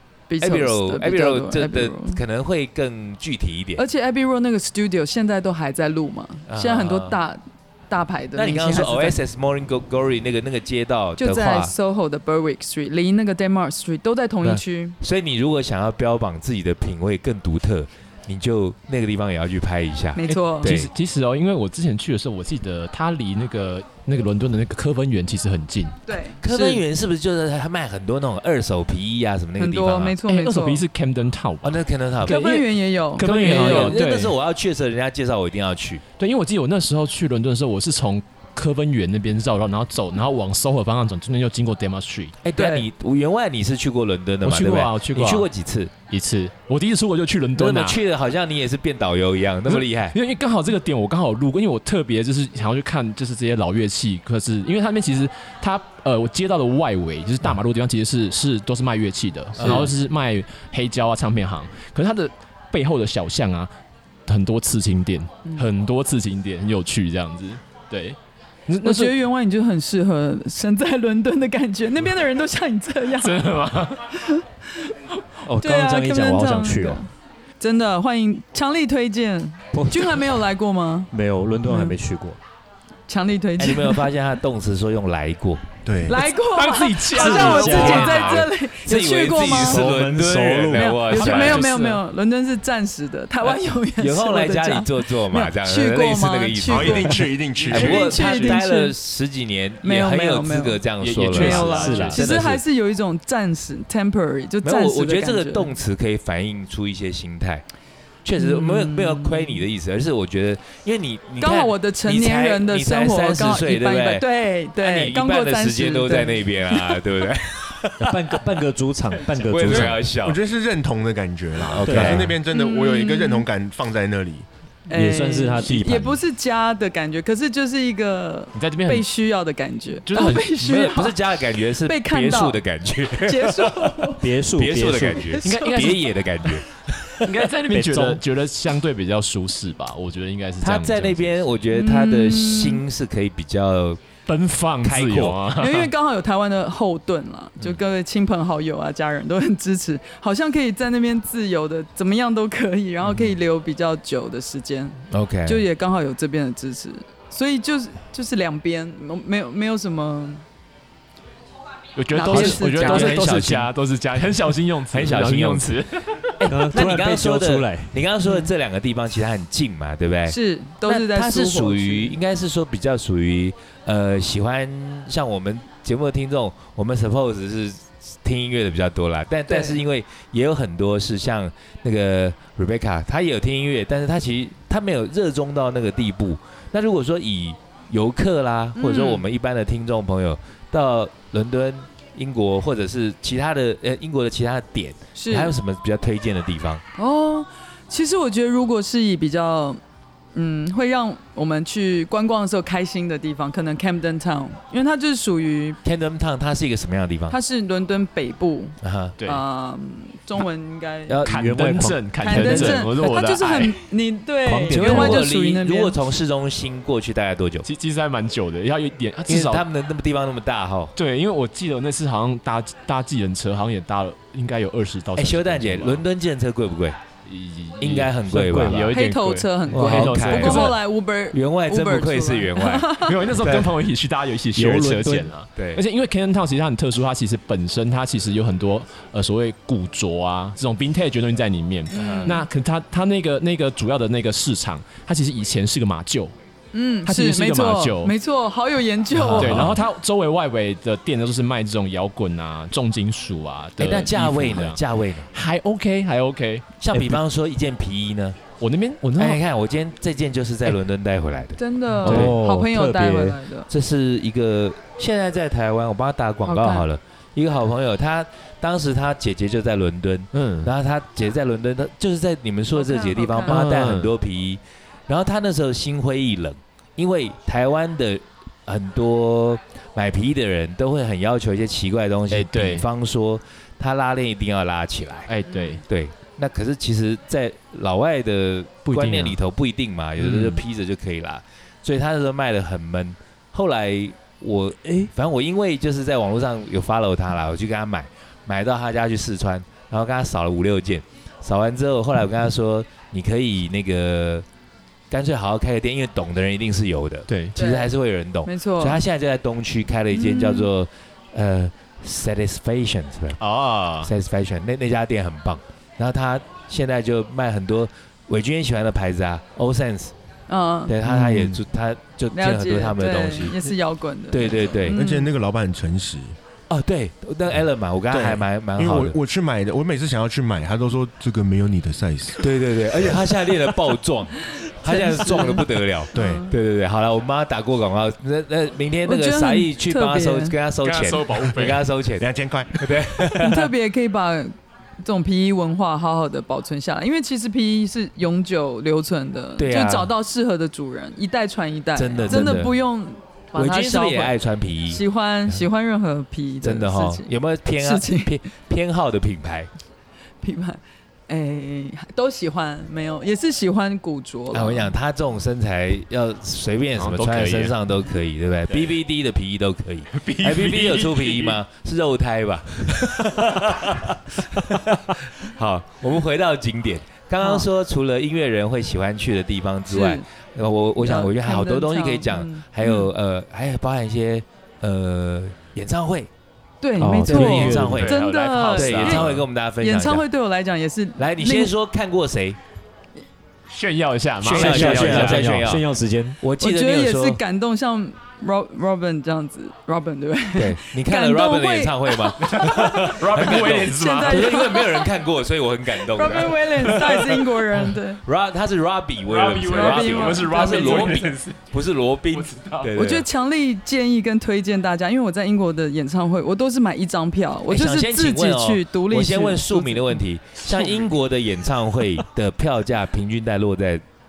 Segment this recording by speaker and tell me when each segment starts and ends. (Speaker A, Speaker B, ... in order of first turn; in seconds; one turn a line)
Speaker A: 0.3-2.2
Speaker B: 0.4-3.8
Speaker A: 3.8-9.2
Speaker B: 6.5-7.2
Speaker B: 8.4-11.7
Speaker A: 11.2-15.0
Speaker B: 14.4-20.9
Speaker A: 20.2-20.7
Speaker C: 20.3-26.0
Speaker A: 26.1-26.8
Speaker B: 26.4-30.2
Speaker A: 29.6-30.8
Speaker C: 30.2-34.4
Speaker B: 31.6-32.5
Speaker A: 32.2-34.0
Speaker B: 33.2-36.0
Speaker C: 36.2-42.8
Speaker B: 42.4-45.9
Speaker C: 44.4-45.5
Speaker C: 46.1-48.0
Speaker B: 47.5-50.2
Speaker C: 49.7-63.7
Speaker B: 59.6-59.9
Speaker C: 64.3-69.2
Speaker A: 68.8-73.4
Speaker C: 73.2-74.0
Speaker A: 74.1-74.9
Speaker D: 75.5-77.1
Speaker A: 75.6-81.1
Speaker D: 79.7-80.4
Speaker D: 81.1-82.4
Speaker A: 81.7-82.0
Speaker A: 83.1-84.1
Speaker B: 83.6-85.6
Speaker E: 85.8-86.2
Speaker A: 86.0-89.8
Speaker C: 86.5-88.4
Speaker D: 87.1-88.4
Speaker B: 87.4-91.7
Speaker D: 89.4-91.0
Speaker A: 90.7-98.9
Speaker C: 91.1-92.0
Speaker B: 93.5-102.6
Speaker E: 96.7-98.5
Speaker A: 99.8-105.7
Speaker C: 101.0-102.4
Speaker D: 101.7-102.2
Speaker B: 104.6-107.6
Speaker B: 108.2-114.2
Speaker A: 108.4-109.6
Speaker A: 111.4-117.2
Speaker B: 114.8-118.4
Speaker D: 118.0-120.0
Speaker B: 119.3-120.4
Speaker C: 119.7-119.9
Speaker E: 119.7-124.5
Speaker B: 121.6-122.4
Speaker D: 121.8-122.4
Speaker A: 122.5-123.5
Speaker A: 124.9-131.2
Speaker D: 124.9-126.2
Speaker C: 128.5-129.1
Speaker C: 130.1-130.6
Speaker B: 130.6-137.5
Speaker A: 131.8-132.6
Speaker A: 133.2-134.2
Speaker D: 134.2-135.4
Speaker A: 135.2-136.0
Speaker C: 135.4-136.2
Speaker C: 137.2-141.4
Speaker D: 137.7-138.2
Speaker B: 140.6-144.1
Speaker A: 141.7-142.8
Speaker C: 144.3-145.9
Speaker B: 144.8-145.4
Speaker A: 145.6-160.4
Speaker B: 155.1-155.7
Speaker C: 162.0-166.4
Speaker A: 162.1-163.3
Speaker B: 162.3-163.7
Speaker B: 164.9-165.8
Speaker B: 166.4-196.8
Speaker D: 166.5-168.0
Speaker A: 168.2-168.5
Speaker A: 170.3-172.2
Speaker A: 179.5-179.8
Speaker A: 188.8-189.2
Speaker A: 195.2-195.5
Speaker A: 197.0-199.8
Speaker A: 200.3-205.8
Speaker B: 205.8-207.4
Speaker A: 207.3-211.2
Speaker B: 208.8-209.2
Speaker B: 211.1-212.9
Speaker C: 211.2-213.8
Speaker A: 212.2-215.9
Speaker B: 214.5-217.7
Speaker C: 214.6-215.2
Speaker C: 217.7-219.7
Speaker B: 219.3-220.9
Speaker C: 220.9-226.0
Speaker B: 225.2-227.0
Speaker C: 227.3-230.8
Speaker B: 227.8-229.0
Speaker A: 228.9-233.2
Speaker B: 229.7-230.8
Speaker B: 231.3-233.8
Speaker C: 233.0-246.3
Speaker B: 234.6-235.8
Speaker D: 234.6-235.2
Speaker A: 241.9-242.4
Speaker B: 241.9-242.4
Speaker A: 246.7-249.7
Speaker C: 247.1-248.1
Speaker B: 249.2-249.8
Speaker C: 249.3-257.1
Speaker B: 253.8-255.3
Speaker B: 256.8-258.4
Speaker C: 258.6-259.4
Speaker B: 259.2-262.4
Speaker A: 261.6-263.7
Speaker C: 262.0-262.4
Speaker D: 262.1-263.4
Speaker B: 263.7-285.3
Speaker A: 266.5-266.9
Speaker C: 270.3-270.7
Speaker A: 272.7-273.6
Speaker C: 273.5-274.1
Speaker C: 282.3-282.9
Speaker C: 285.3-285.8
Speaker B: 285.9-304.4
Speaker C: 288.9-289.4
Speaker C: 290.2-290.6
Speaker B: 305.1-313.4
Speaker C: 307.3-307.6
Speaker A: 307.6-307.9
Speaker A: 308.4-309.0
Speaker A: 310.1-310.7
Speaker C: 313.4-314.1
Speaker B: 314.0-320.1
Speaker A: 320.5-320.9
Speaker B: 320.9-323.6
Speaker C: 321.1-321.6
Speaker A: 322.3-325.3
Speaker B: 324.3-325.0
Speaker E: 324.9-326.4
Speaker B: 326.7-329.2
Speaker E: 328.1-333.2
Speaker B: 332.4-343.7
Speaker A: 334.8-336.5
Speaker E: 336.1-336.5
Speaker A: 339.1-340.6
Speaker C: 340.8-341.9
Speaker E: 342.2-343.4
Speaker A: 343.4-354.4
Speaker B: 349.6-350.1
Speaker B: 352.0-352.8
Speaker B: 353.6-355.6
Speaker A: 354.9-358.3
Speaker B: 356.6-359.7
Speaker A: 360.4-364.9
Speaker B: 364.5-386.3
Speaker C: 367.0-367.8
Speaker C: 368.7-369.0
Speaker C: 370.1-371.6
Speaker A: 377.4-377.7
Speaker A: 379.9-380.2
Speaker A: 381.0-383.1
Speaker A: 386.8-389.3
Speaker D: 387.0-388.1
Speaker B: 387.0-388.2
Speaker C: 387.3-389.4
Speaker B: 388.7-390.2
Speaker A: 389.8-391.7
Speaker B: 391.2-392.6
Speaker C: 393.7-395.7
Speaker B: 394.4-395.9
Speaker D: 394.4-396.4
Speaker B: 396.4-397.4
Speaker A: 396.6-405.1
Speaker B: 400.6-407.2
Speaker C: 402.4-404.7
Speaker A: 406.1-408.2
Speaker C: 406.8-407.8
Speaker B: 408.2-413.3
Speaker C: 409.3-411.7
Speaker A: 409.7-411.1
Speaker C: 412.3-412.9
Speaker A: 412.9-420.2
Speaker B: 417.7-424.0
Speaker C: 420.6-421.1